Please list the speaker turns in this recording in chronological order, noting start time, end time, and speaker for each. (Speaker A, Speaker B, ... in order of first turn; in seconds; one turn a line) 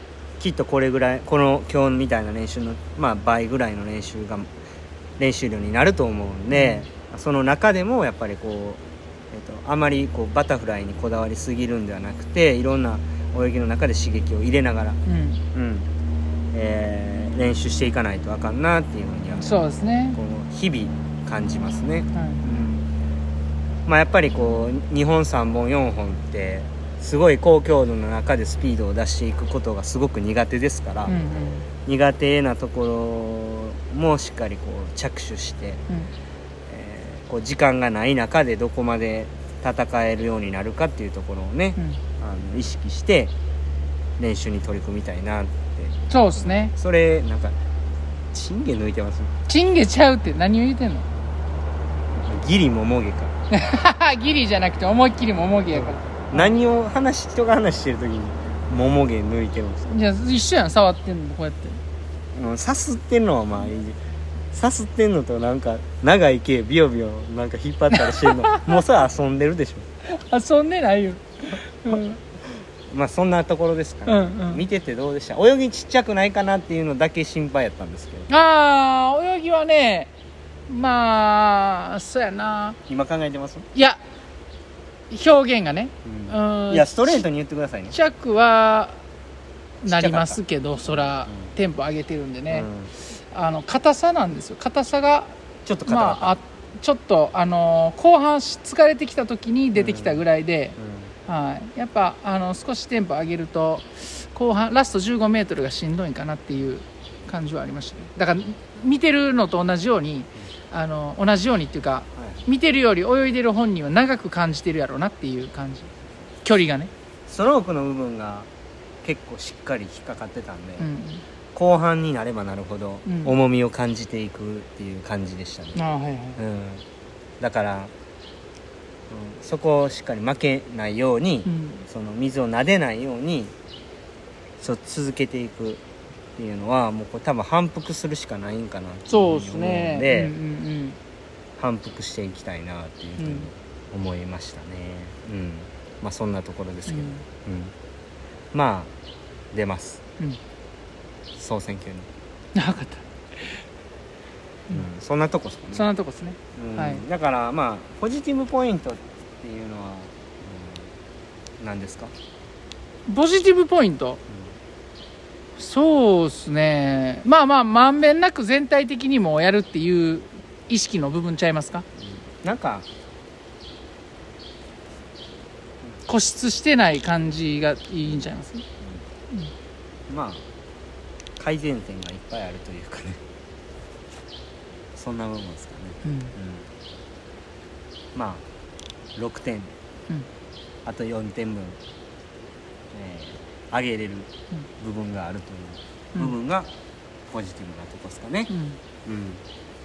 Speaker A: 0.4-4.5
Speaker A: 5.2-15.0
Speaker B: 6.5-6.9
Speaker B: 15.1-15.4
Speaker A: 15.5-15.9
Speaker A: 16.5-22.9
Speaker B: 19.4-20.2
Speaker B: 22.1-22.4
Speaker A: 23.9-31.2
Speaker B: 31.1-31.7
Speaker A: 31.8-35.8
Speaker A: 36.7-43.3
Speaker A: 44.2-47.5
Speaker B: 46.1-46.7
Speaker A: 48.3-49.3
Speaker B: 49.5-51.0
Speaker A: 52.1-53.3
Speaker B: 53.5-56.5
Speaker A: 55.7-59.9
Speaker B: 59.9-61.8
Speaker A: 62.3-64.0
Speaker A: 64.5-69.9
Speaker B: 67.9-68.8
Speaker B: 70.1-72.2
Speaker A: 72.9-78.3
Speaker B: 74.1-74.6
Speaker B: 78.3-80.1
Speaker B: 80.7-82.8
Speaker A: 82.9-83.7
Speaker B: 83.7-84.0
Speaker B: 85.1-87.2
Speaker A: 86.0-87.9
Speaker B: 87.9-89.0
Speaker A: 89.8-90.4
Speaker B: 89.8-92.7
Speaker A: 91.0-91.5
Speaker A: 92.5-92.9
Speaker B: 93.3-95.3
Speaker A: 95.7-96.4
Speaker B: 95.8-115.9
Speaker A: 99.7-100.2
Speaker A: 100.8-101.1
Speaker A: 112.2-112.4
Speaker B: 116.4-116.9
Speaker A: 117.3-118.5
Speaker A: 119.0-120.9
Speaker B: 120.8-121.2
Speaker A: 121.5-125.8
Speaker B: 123.0-123.3
Speaker B: 125.8-126.4
Speaker A: 126.4-126.8
Speaker A: 127.4-127.9
Speaker A: 129.1-133.5
Speaker B: 131.4-131.8
Speaker A: 134.6-135.8
Speaker A: 136.4-140.3
Speaker B: 139.1-141.0
Speaker A: 141.6-147.7
Speaker B: 143.2-143.5
Speaker B: 146.9-147.2
Speaker A: 148.5-148.9
Speaker A: 149.5-150.0
Speaker A: 151.3-152.1
Speaker B: 152.5-153.6
Speaker A: 154.7-155.8
Speaker B: 155.7-157.0
Speaker A: 156.6-160.9
Speaker A: 161.6-162.1
Speaker B: 163.1-164.2
Speaker B: 165.6-171.8
Speaker A: 172.1-172.8
Speaker B: 176.1-178.6
Speaker A: 180.1-180.4
Speaker A: 181.4-183.2
Speaker A: 184.9-186.7
Speaker B: 186.0-186.3
Speaker A: 188.1-188.4
Speaker A: 189.1-189.7
Speaker A: 190.8-191.8
Speaker A: 192.9-196.7
Speaker A: 197.3-198.5
Speaker B: 198.5-198.8
Speaker A: 199.0-199.4